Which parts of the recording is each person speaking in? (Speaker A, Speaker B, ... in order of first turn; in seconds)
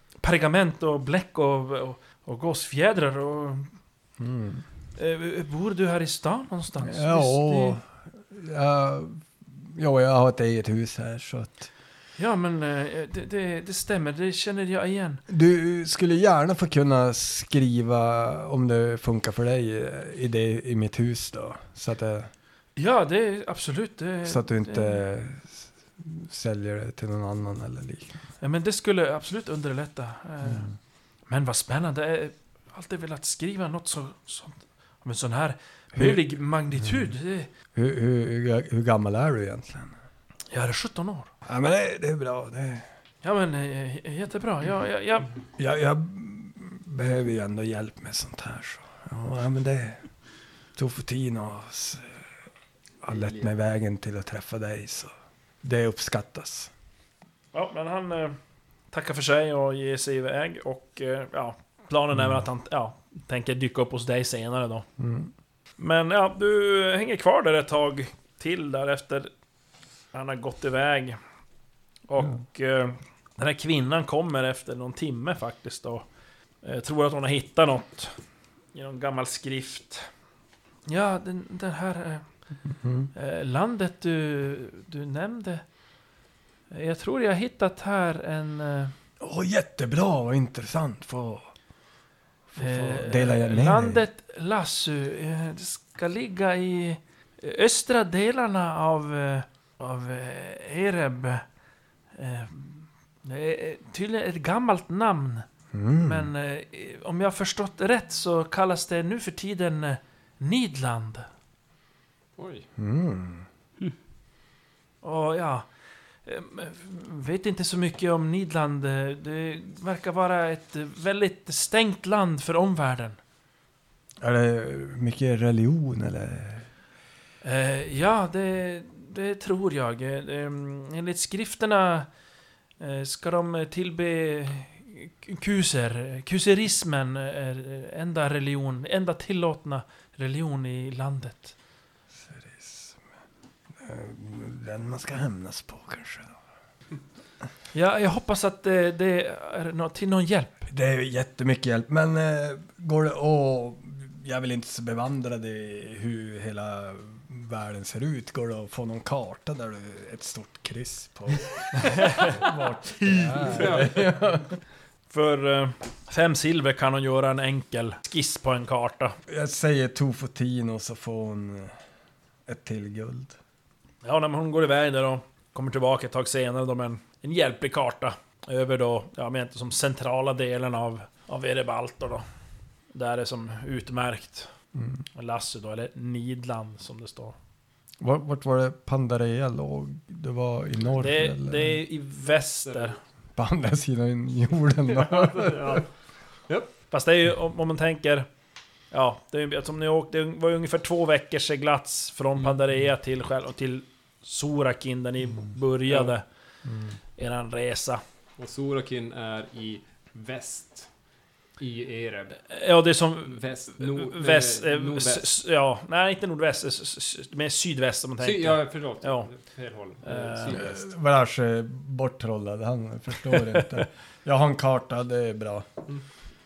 Speaker A: 0.2-3.7, 5.0-7.8, 12.2-15.2, 22.8-25.0, 28.4-30.7, 31.3-37.5, 40.5-41.3, 43.2-45.3, 57.5-58.4, 58.9-64.8, 65.8-69.3, 70.1-71.2, 72.1-76.0, 76.6-78.2, 78.7-80.1, 80.8-82.2, 83.1-85.6, 86.7-88.9, 92.6-101.4, 102.2-105.5, 106.0-111.3, 115.0-115.7, 116.2-123.2, 127.4-132.1, 132.8-141.5, 147.7-150.7, 162.1-162.3, 165.1-169.2, 174.0-182.2, 182.9-184.5, 185.2-187.3, 191.0-193.0, 196.9-198.3, 198.9-206.2, 207.2-208.0, 212.5-219.3, 220.0-220.6
Speaker B: 4.2-4.6, 6.8-11.7, 15.3-22.3, 24.2-28.1, 30.4-30.7, 35.9-36.2, 36.8-37.1, 37.7-39.9, 41.5-42.9, 45.6-50.0, 50.8-52.2, 53.0-56.7, 62.1-62.4, 65.0-65.3, 82.7-83.1, 89.2-91.5, 92.5-94.0, 105.7-106.3, 112.8-113.4, 124.2-126.7, 142.1-143.0, 143.8-146.4, 150.7-164.5, 169.3-171.7, 172.4-173.3, 184.7-185.0, 188.0-191.8, 193.3-195.8, 206.7-206.9, 220.5-225.7
Speaker C: 53.1-53.4, 112.4-112.7, 163.0-164.1, 192.6-192.9, 194.9-195.9, 205.9-206.1, 208.4-210.9, 211.6-212.4, 213.3-215.3, 218.2-220.8